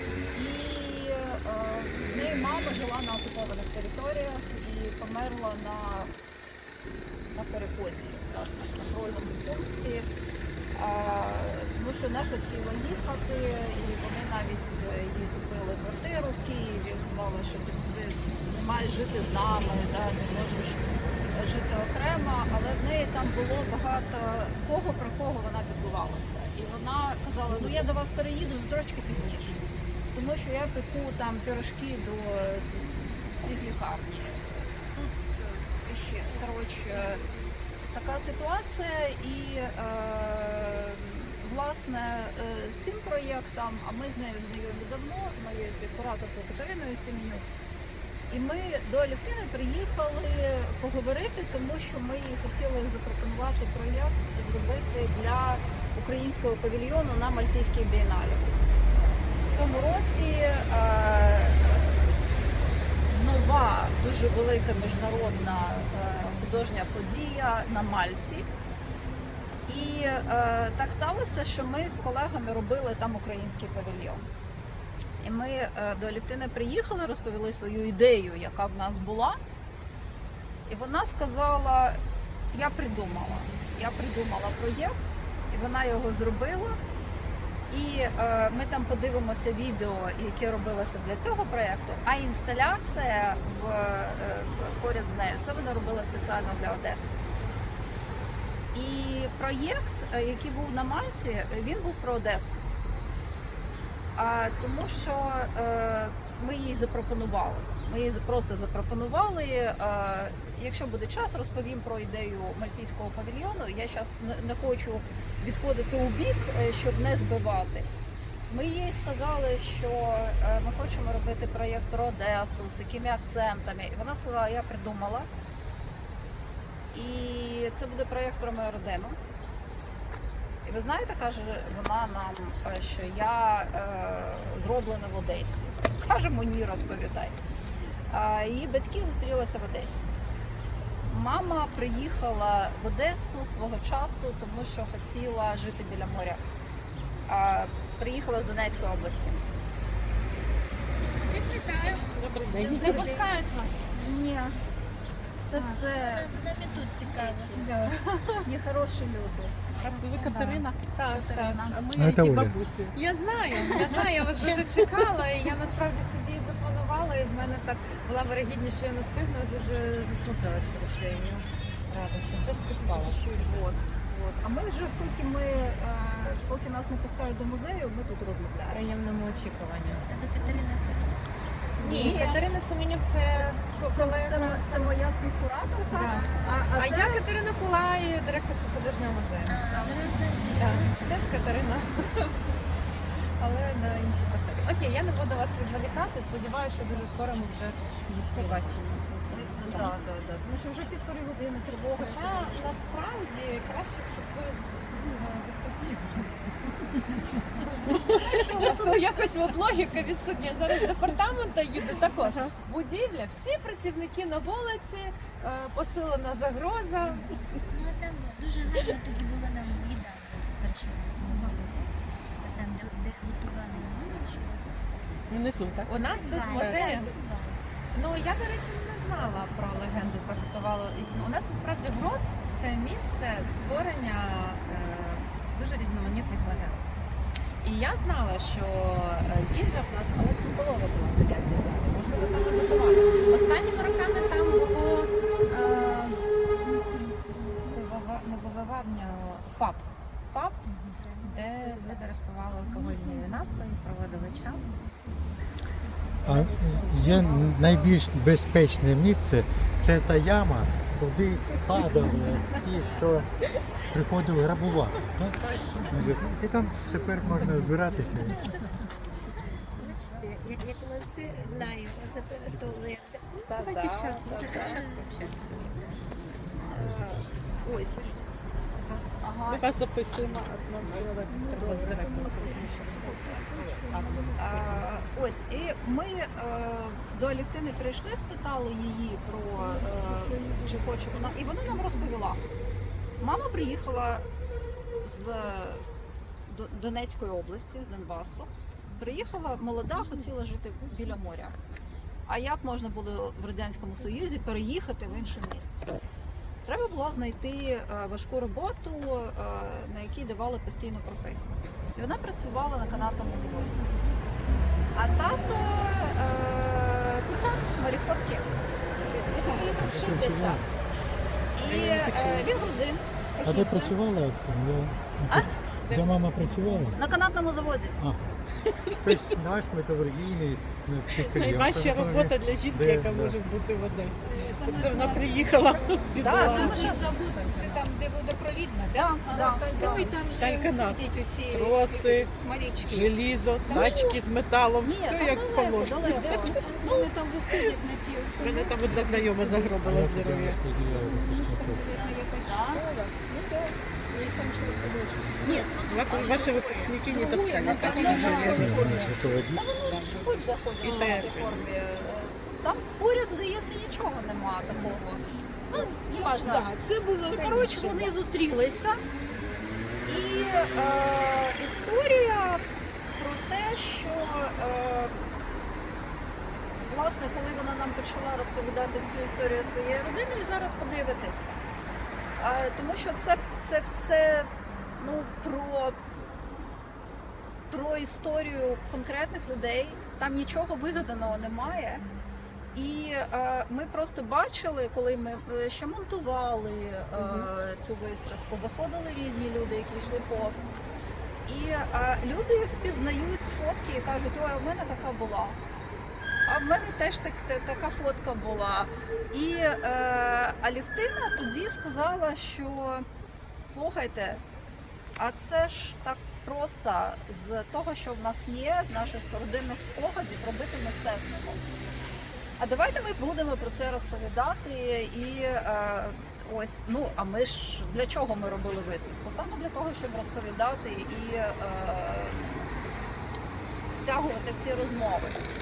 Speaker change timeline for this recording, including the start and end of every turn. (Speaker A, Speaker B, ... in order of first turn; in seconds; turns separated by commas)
Speaker A: 0.3-6.1, Speaker A: 7.3-10.1, Speaker A: 10.7-20.8, Speaker A: 21.3-29.6, Speaker A: 30.1-37.2, Speaker A: 37.9-47.4, Speaker A: 48.3-58.5, Speaker A: 59.5-62.1, Speaker A: 63.1-68.5, Speaker A: 69.7-74.3, Speaker A: 75.2-79.4, Speaker A: 80.7-82.0, Speaker A: 82.5-85.0, Speaker A: 85.5-86.8, Speaker A: 87.7-97.1, Speaker A: 98.7-102.6, Speaker A: 104.2-117.9, Speaker A: 118.5-125.3, Speaker A: 126.9-129.2, Speaker A: 130.7-137.4, Speaker A: 138.1-140.0, Speaker A: 141.1-146.4, Speaker A: 147.3-149.4, Speaker B: 151.2-153.9, Speaker C: 152.0-153.2, Speaker D: 152.6-153.2, Speaker A: 153.9-154.6, Speaker A: 155.5-156.3, Speaker D: 155.5-157.7, Speaker A: 157.2-157.6, Speaker A: 158.4-159.6, Speaker B: 159.8-173.7, Speaker C: 159.8-160.6, Speaker A: 160.3-161.8, Speaker E: 161.4-162.9, Speaker F: 161.9-162.6, Speaker C: 163.8-164.6, Speaker A: 172.9-178.8, Speaker B: 178.6-180.6, Speaker D: 179.8-181.2, Speaker B: 181.8-184.9, Speaker A: 181.8-182.4, Speaker A: 183.3-187.2, Speaker B: 185.9-192.3, Speaker D: 185.9-186.7, Speaker D: 189.5-191.0, Speaker B: 193.4-200.2, Speaker A: 199.3-202.9, Speaker B: 202.0-206.3, Speaker B: 207.6-217.4, Speaker A: 207.9-209.3, Speaker D: 217.7-224.7, Speaker C: 225.3-226.8, Speaker B: 225.9-227.2, Speaker D: 225.9-227.6, Speaker B: 227.9-236.9, Speaker B: 237.6-246.2, Speaker B: 247.7-254.8, Speaker F: 256.2-263.3, Speaker B: 257.1-257.5, Speaker F: 263.9-268.5, Speaker D: 269.8-273.2, Speaker A: 273.5-274.8, Speaker C: 273.5-276.6, Speaker F: 276.6-277.5, Speaker A: 276.6-278.1, Speaker C: 278.9-284.9, Speaker A: 279.2-279.6, Speaker A: 281.6-281.9, Speaker A: 282.9-283.4, Speaker A: 284.4-292.4, Speaker A: 293.2-294.2, Speaker A: 295.0-295.8, Speaker A: 296.5-301.6, Speaker A: 302.3-305.9, Speaker A: 306.7-313.8, Speaker A: 314.9-318.4, Speaker A: 319.1-320.6, Speaker F: 319.7-320.7, Speaker A: 321.6-323.9, Speaker C: 321.6-322.5, Speaker F: 321.9-322.4, Speaker F: 323.4-327.0, Speaker C: 325.9-326.2, Speaker A: 326.9-328.0, Speaker F: 328.0-328.4, Speaker C: 328.6-329.3, Speaker F: 329.0-333.4, Speaker C: 331.2-337.1, Speaker E: 334.3-343.1, Speaker A: 336.2-337.1, Speaker A: 338.9-340.1, Speaker C: 339.8-342.3, Speaker C: 342.9-346.6, Speaker E: 343.7-344.2, Speaker A: 343.7-344.2, Speaker A: 344.8-346.6, Speaker E: 346.1-349.8, Speaker C: 348.4-350.6, Speaker F: 349.8-351.9, Speaker E: 350.9-358.7, Speaker A: 352.4-352.8, Speaker C: 355.9-358.9, Speaker B: 357.1-358.7, Speaker A: 357.8-366.7, Speaker F: 358.0-359.7, Speaker C: 359.9-361.6, Speaker E: 365.7-368.1, Speaker A: 367.3-369.0, Speaker A: 370.1-372.6, Speaker A: 373.2-375.3, Speaker A: 376.8-381.6, Speaker A: 382.4-386.0, Speaker A: 387.7-392.0, Speaker A: 392.8-400.8, Speaker A: 401.5-405.6, Speaker A: 406.5-413.1, Speaker A: 413.7-414.4, Speaker A: 415.2-421.6, Speaker A: 422.6-432.8, Speaker A: 433.9-435.4